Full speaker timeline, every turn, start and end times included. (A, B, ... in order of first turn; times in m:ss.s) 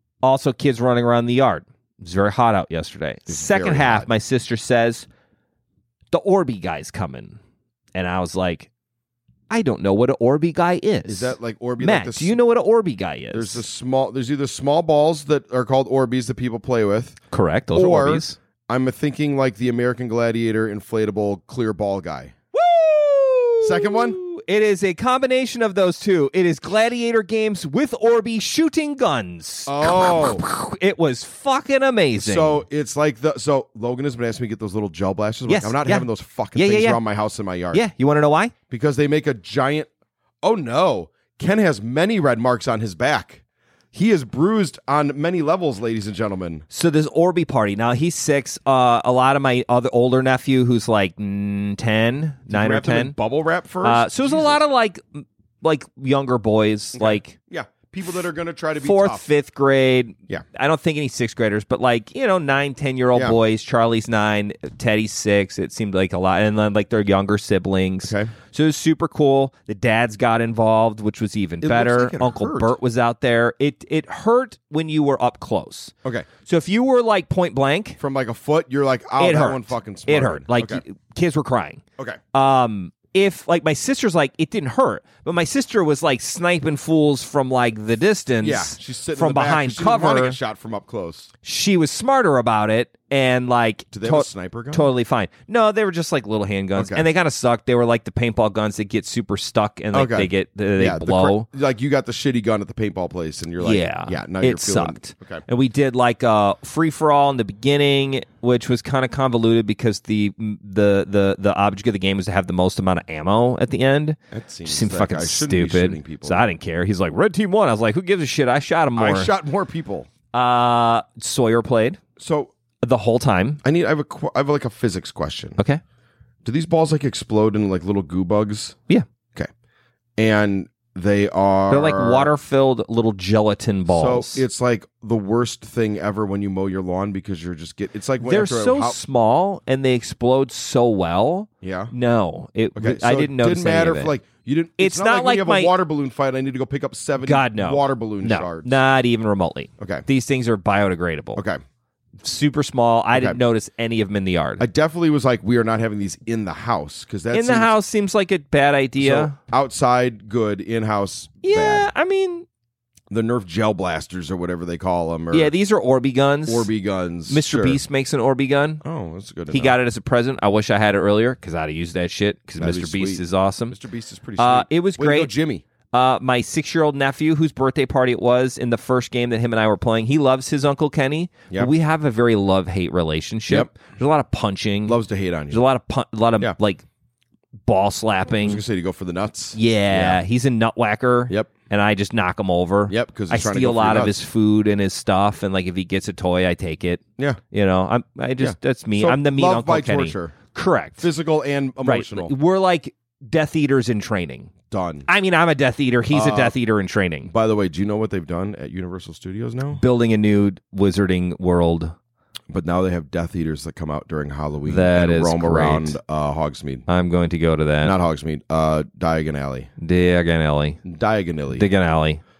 0:00.2-0:05.1 A
0:03.3-0:04.1 B
0:06.1-0:07.4 A
0:07.9-0:08.7 A
0:09.5-0:13.6 A
0:11.1-0:12.4 B
0:13.3-0:17.2 B
0:17.3-0:18.4 A
0:17.7-0:22.3 B
0:22.5-0:32.6 A
0:23.6-0:24.2 B
0:29.7-0:30.4 B
0:32.2-0:37.8 B
0:35.5-0:37.0 A
0:37.7-0:38.5 A
0:38.7-0:39.9 B
0:40.4-0:43.4 B
0:43.9-0:46.6 B
0:46.7-0:53.2 A
0:52.5-0:54.6 B
0:53.8-0:57.4 A
0:57.0-0:59.3 B
0:58.8-1:18.0 A
1:08.0-1:08.3 B
1:11.6-1:12.8 B
1:18.0-1:20.8 B
1:19.2-1:21.8 A
1:22.3-1:30.4 A
1:28.4-1:31.3 B
1:31.4-1:41.5 A
1:33.9-1:34.9 B
1:36.7-1:37.1 B
1:39.9-1:45.4 B
1:43.6-1:59.3 A
1:54.3-1:56.4 B
1:59.0-2:00.1 B
2:00.3-2:02.0 A
2:02.2-2:02.5 B
2:02.8-2:03.6 A
2:03.6-2:05.6 B
2:06.4-2:08.8 B
2:10.2-2:12.3 B
2:11.7-2:14.4 A
2:13.9-2:19.0 B
2:18.2-2:24.1 A
2:21.6-2:21.9 B
2:22.7-2:28.8 B
2:24.8-2:25.7 A
2:27.2-2:31.4 A
2:29.8-2:30.0 B
2:31.4-2:31.6 B
2:32.2-2:34.6 A
2:33.1-2:33.4 B
2:34.6-2:37.7 B
2:37.3-2:39.4 A
2:39.0-2:41.9 B
2:41.4-2:42.4 A
2:43.1-2:45.5 B
2:45.3-2:46.7 A
2:46.4-2:47.8 B
2:47.3-2:48.8 A
2:48.8-2:49.8 B
2:49.5-2:53.8 A
2:52.6-2:55.6 B
2:54.4-2:55.3 A
2:55.9-3:05.0 A
3:03.5-3:03.7 B
3:04.8-3:05.6 B
3:05.5-3:06.8 A
3:07.6-3:08.6 A
3:08.4-3:10.2 B
3:09.5-3:21.1 A
3:12.9-3:14.2 B
3:18.4-3:20.4 B
3:21.0-3:22.3 B
3:21.8-3:24.5 A
3:24.7-3:25.1 B
3:25.1-3:27.3 A
3:26.1-3:26.6 B
3:27.2-3:29.8 B
3:29.8-3:31.9 A
3:32.5-3:36.8 B
3:34.7-3:36.0 A
3:36.9-3:37.9 A
3:37.8-3:39.7 B
3:39.8-3:40.8 A
3:40.8-3:41.7 B
3:41.5-3:42.2 A